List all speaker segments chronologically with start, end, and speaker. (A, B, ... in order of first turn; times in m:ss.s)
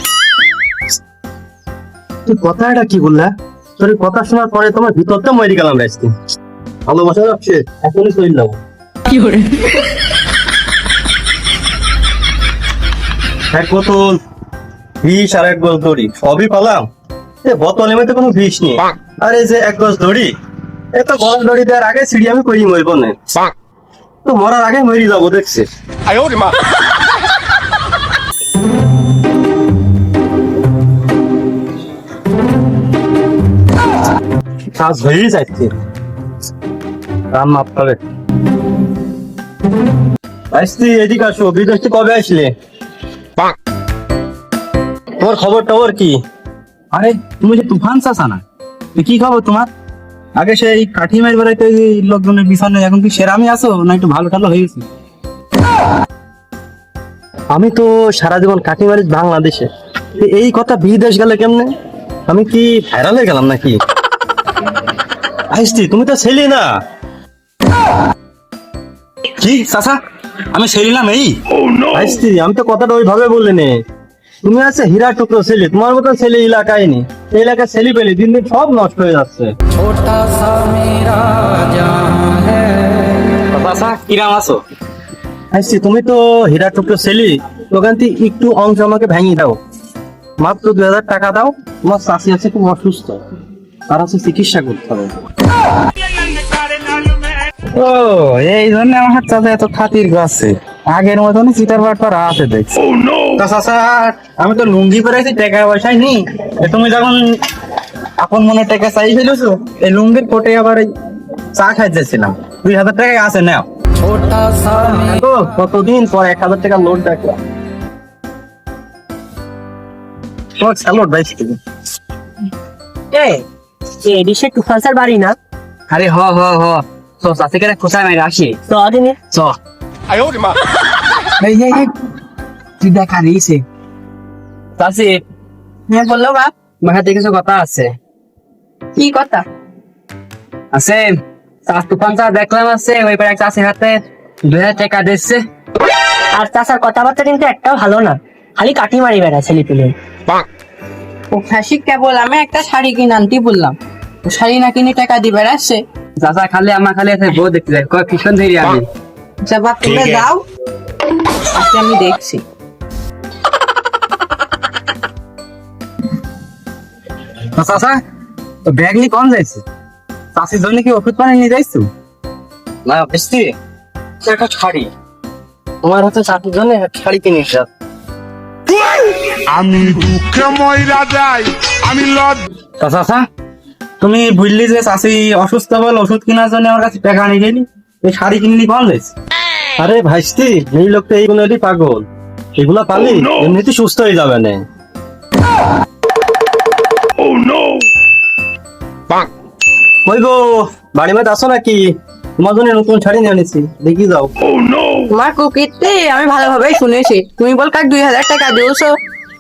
0:02.3-0:06.1 A
0:06.9-0:08.6 A
0:13.5-0:14.2 A
0:15.0-0:16.9 A
0:17.4-0:20.3 A
0:20.9-0:23.2 A
0:24.2-0:25.7 A
0:34.8-0:35.8 A
0:37.3-0:38.0 A
0:40.5-0:42.5 A
0:45.2-0:46.2 A
0:46.9-0:48.4 B
0:49.0-0:49.7 B
0:50.4-0:54.8 B
0:57.5-1:01.7 A
1:02.3-1:03.8 A
1:05.5-1:06.7 A
1:09.4-1:10.0 B
1:10.5-1:11.4 B
1:11.9-1:13.8 A
1:14.4-1:19.5 A
1:23.5-1:24.6 B
1:25.5-1:29.6 A
1:30.4-1:33.2 A
1:33.9-1:35.1 A
1:37.8-1:42.8 B
1:43.4-1:47.4 B
1:48.2-1:50.9 B
1:51.6-1:53.7 B
1:55.0-1:57.4 A
2:00.6-2:01.6 A
2:03.1-2:03.4 C
2:04.0-2:05.4 C
2:05.9-2:08.6 D
2:08.7-2:09.2 C
2:11.4-2:11.8 D
2:12.8-2:13.6 D
2:14.8-2:15.2 D
2:15.9-2:16.5 E
2:16.8-2:18.0 D
2:19.0-2:19.4 E
2:20.7-2:25.4 D
2:26.3-2:30.0 C
2:31.3-2:35.8 E
2:36.2-2:38.8 D
2:39.4-2:40.4 E
2:41.5-2:42.4 E
2:47.5-2:48.0 B
2:48.7-2:49.6 B
2:50.4-2:51.9 B
2:52.9-2:53.5 A
2:54.2-2:54.9 A
2:55.8-2:57.7 A
2:58.7-3:02.4 F
3:02.8-3:03.3 B
3:04.0-3:09.1 B
3:09.8-3:12.1 A
3:12.6-3:14.6 A
3:20.0-3:21.9 A
3:22.4-3:24.3 A
3:25.1-3:29.0 E